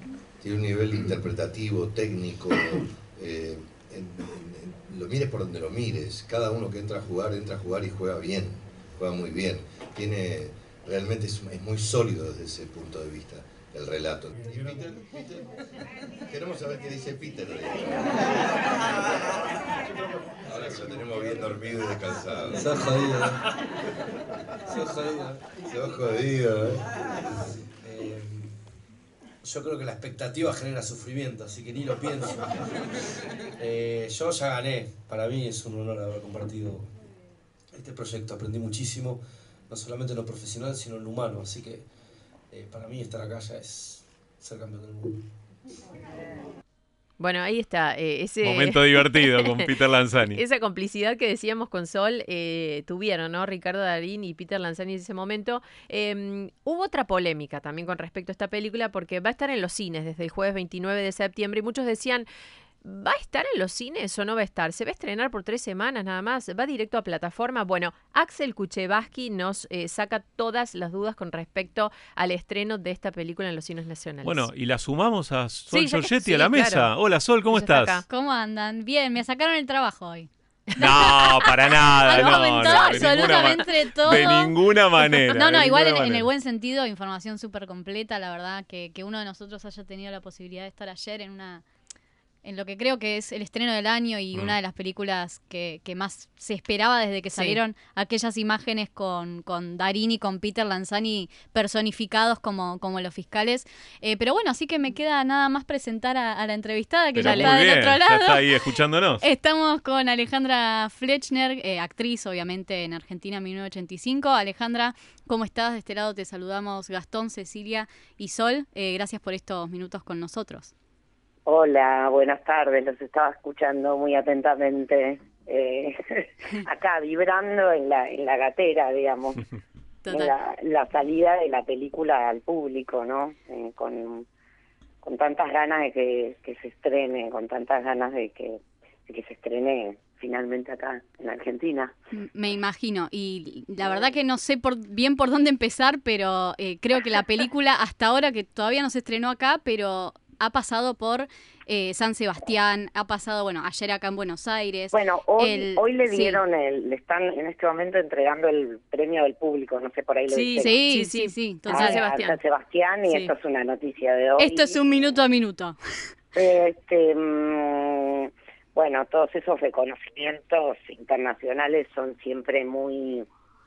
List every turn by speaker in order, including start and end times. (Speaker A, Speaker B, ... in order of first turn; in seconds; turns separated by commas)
Speaker A: 0.4-15.4, Speaker A: 16.3-18.4, Speaker A: 19.9-23.0, Speaker B: 20.5-20.9, Speaker B: 22.5-23.4, Speaker B: 24.7-25.5, Speaker A: 25.7-26.8, Speaker B: 27.8-28.5, Speaker B: 29.4-32.9, Speaker B: 33.6-36.9, Speaker B: 37.7-41.9, Speaker B: 42.5-45.2, Speaker C: 47.2-49.7, Speaker D: 48.4-50.4, Speaker C: 50.3-62.3, Speaker C: 62.8-74.5, Speaker D: 74.2-78.0, Speaker C: 75.7-76.9, Speaker C: 77.5-78.0, Speaker E: 78.1-80.3, Speaker D: 80.8-86.3, Speaker E: 82.0-84.5, Speaker C: 82.0-83.6, Speaker E: 85.2-91.6, Speaker E: 92.4-108.5, Speaker C: 97.3-97.6, Speaker D: 107.1-109.2, Speaker C: 107.2-107.5, Speaker E: 109.2-120.7, Speaker F: 121.5-129.4, Speaker E: 130.0-130.3, Speaker F: 130.1-134.2, Speaker F: 135.0-141.9, Speaker E: 142.1-156.4, Speaker F: 143.8-144.1, Speaker F: 154.9-160.8, Speaker C: 160.3-162.4, Speaker E: 160.6-162.0, Speaker F: 161.7-164.8, Speaker E: 164.4-165.8, Speaker F: 166.3-173.2